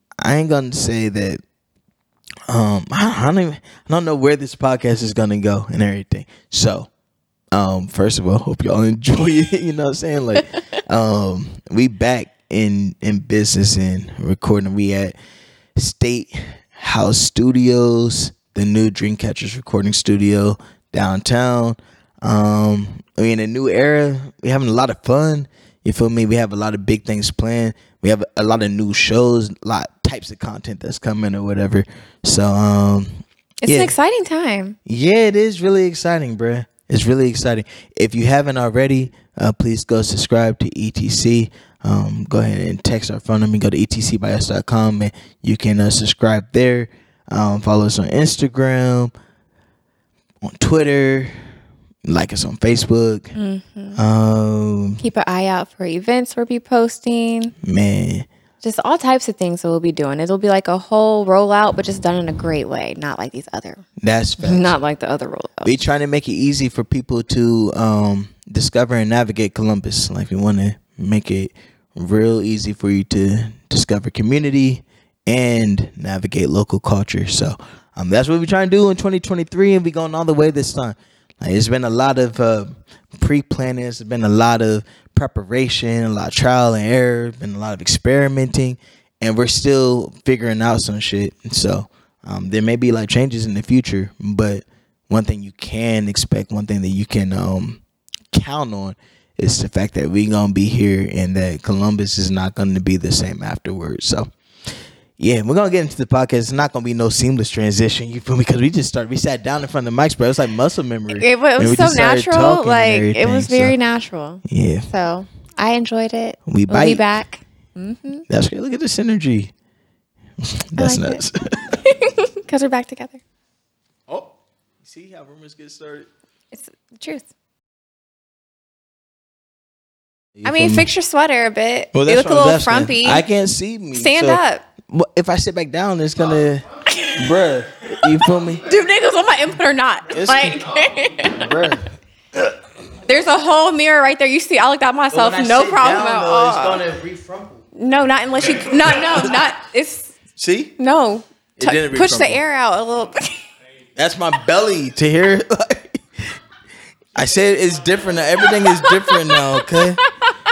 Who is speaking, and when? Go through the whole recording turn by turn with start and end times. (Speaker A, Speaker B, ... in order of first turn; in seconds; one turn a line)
Speaker A: 0.2-1.4
Speaker A: 2.5-6.9
Speaker A: 7.5-15.2
Speaker A: 15.8-33.1
Speaker B: 33.6-34.8
Speaker A: 33.6-33.9
Speaker A: 34.9-49.1
Speaker A: 50.4-51.3
Speaker A: 52.1-53.3
Speaker B: 53.3-54.0
Speaker A: 54.0-55.0
Speaker B: 55.0-57.5
Speaker A: 57.6-58.3
Speaker B: 58.6-63.8
Speaker A: 64.0-64.8
Speaker B: 64.4-65.7
Speaker A: 65.6-97.8
Speaker A: 98.3-104.3
Speaker A: 105.2-113.7
Speaker B: 111.1-118.2
Speaker A: 114.5-114.9
Speaker A: 116.5-117.0
Speaker A: 118.3-119.5
Speaker A: 120.4-121.7
Speaker B: 120.8-123.2
Speaker A: 124.8-126.1
Speaker B: 126.5-127.2
Speaker A: 130.4-130.9
Speaker B: 130.4-133.2
Speaker A: 131.9-138.7
Speaker B: 133.9-134.6
Speaker B: 136.9-137.3
Speaker B: 138.6-141.5
Speaker A: 140.1-140.7
Speaker A: 141.2-141.9
Speaker B: 143.1-146.8
Speaker A: 145.1-147.6
Speaker B: 147.8-150.1
Speaker A: 148.6-149.3
Speaker A: 150.4-150.7
Speaker B: 150.8-153.4
Speaker A: 151.6-152.4
Speaker A: 153.9-156.0
Speaker A: 157.1-160.0
Speaker B: 158.4-159.8